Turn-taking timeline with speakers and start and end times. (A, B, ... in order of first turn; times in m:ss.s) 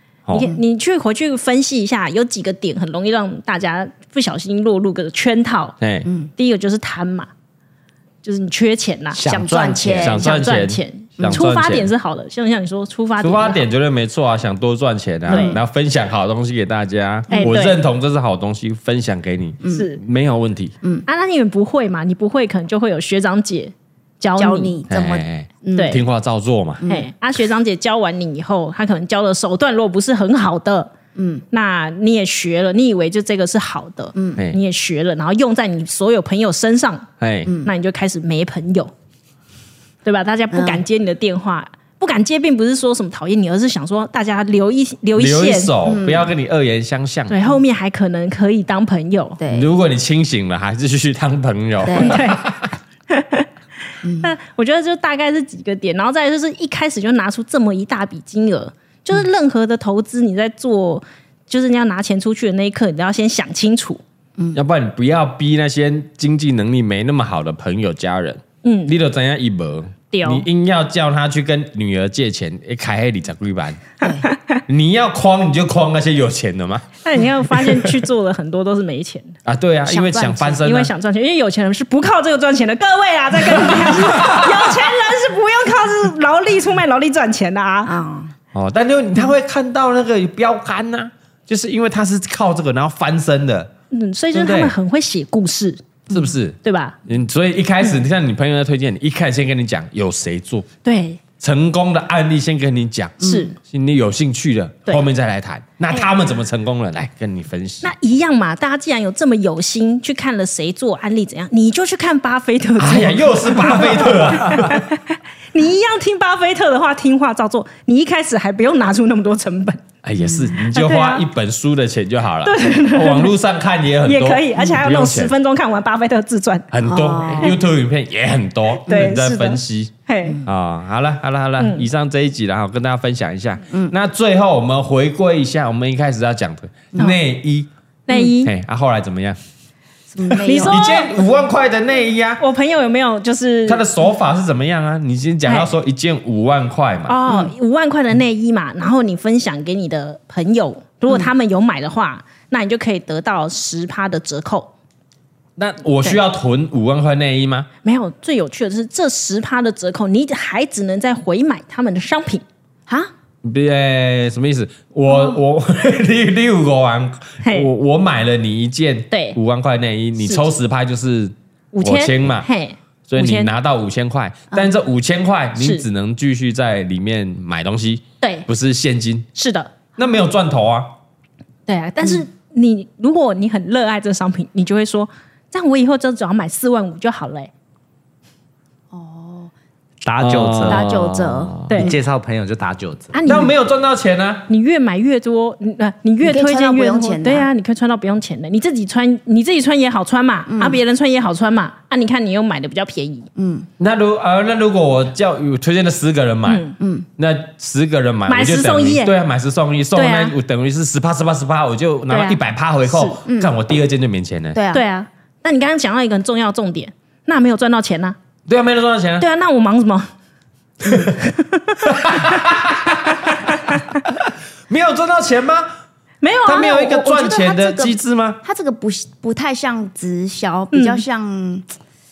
0:00.3-0:05.8 A
0:00.4-0:00.6 B
0:05.8-0:06.1 C
0:06.4-0:07.3 A
0:08.2-0:09.2 A
0:09.1-0:10.2 D
0:09.2-0:10.3 B
0:10.0-0:11.9 C
0:10.2-0:13.7 A
0:13.2-0:20.7 C
0:15.3-0:15.6 B
0:15.3-0:15.6 A
0:17.3-0:17.8 A
0:19.6-0:19.9 B
0:19.6-0:20.0 A
0:21.1-0:24.8 A
0:24.4-0:26.0 B
0:24.9-0:26.8 C
0:25.7-0:26.0 A
0:26.8-0:27.1 B
0:26.9-0:30.9 A
0:31.2-0:31.4 B
0:31.5-0:37.1 A
0:34.2-0:34.4 B
0:37.2-0:37.5 C
0:37.5-0:37.7 B
0:37.6-0:38.9 A
0:40.0-0:45.8 A
0:40.5-0:40.8 B
0:45.2-0:47.4 C
0:45.8-0:46.3 B
0:47.3-0:49.4 A
0:49.4-0:49.7 B
0:49.5-0:52.7 C
0:51.8-0:52.2 B
0:52.0-0:52.4 A
0:53.1-0:53.5 A
0:54.0-0:54.3 B
0:54.2-1:04.0 A
1:04.6-1:13.8 C
1:08.6-1:09.0 A
1:10.1-1:10.4 A
1:14.0-1:14.3 B
1:14.0-1:14.6 A
1:14.7-1:16.9 C
1:17.0-1:19.4 A
1:17.5-1:18.0 C
1:19.4-1:20.9 C
1:19.9-1:20.6 B
1:20.6-1:28.0 A
1:24.1-1:24.5 C
1:27.9-1:28.3 B
1:28.5-1:33.7 C
1:33.9-1:35.8 A
1:34.3-1:34.7 C
1:36.1-1:40.7 C
1:36.6-1:37.0 A
1:40.8-1:41.2 A
1:41.4-1:47.9 C
1:43.2-1:43.5 B
1:43.2-1:43.6 A
1:47.8-1:59.8 A
1:52.8-1:54.9 C
2:00.0-2:05.3 C
2:00.2-2:00.6 B
2:00.7-2:01.2 A
2:02.4-2:03.4 A
2:04.0-2:06.7 A
2:06.7-2:09.9 C
2:06.8-2:07.6 B
2:08.9-2:10.4 A
2:10.4-2:17.7 C
2:11.6-2:11.8 A
2:18.1-2:18.5 A
2:18.4-2:19.4 C
2:20.1-2:20.8 B
2:20.3-2:22.4 C
2:20.4-2:21.2 A
2:22.4-2:23.8 A
2:23.7-2:27.2 C
2:27.1-2:34.7 A
2:27.3-2:27.5 B
2:35.6-2:37.7 C
2:37.8-2:42.4 A
2:43.4-2:52.5 C
2:45.1-2:45.4 B
2:47.4-2:47.7 A
2:49.1-2:49.4 A
2:50.2-2:50.4 A
2:51.7-2:53.5 A
2:53.1-2:59.3 C
2:55.6-2:55.8 A
2:58.2-2:58.5 A
2:59.4-2:59.7 A
3:00.0-3:00.9 C
3:01.7-3:07.5 A
3:08.9-3:09.5 B
3:10.0-3:11.0 D
3:10.2-3:11.8 C
3:10.7-3:12.0 B
3:11.8-3:13.2 D
3:13.1-3:13.5 A
3:13.2-3:14.5 C
3:14.5-3:23.3 A
3:16.2-3:17.5 B
3:20.5-3:20.8 B
3:23.4-3:23.7 B
3:23.8-3:34.6 C
3:26.5-3:26.8 A
3:26.8-3:27.1 B
3:28.3-3:29.1 A
3:30.0-3:30.3 A
3:32.1-3:32.4 A
3:33.0-3:33.5 B
3:34.5-3:34.8 B
3:34.7-3:38.2 A
3:38.5-3:39.3 C
3:39.2-3:40.1 A
3:41.0-3:42.3 A
3:41.8-3:45.7 C
3:46.2-3:46.8 A
3:46.4-3:48.4 C
3:46.5-3:51.6 B
3:50.7-3:51.0 A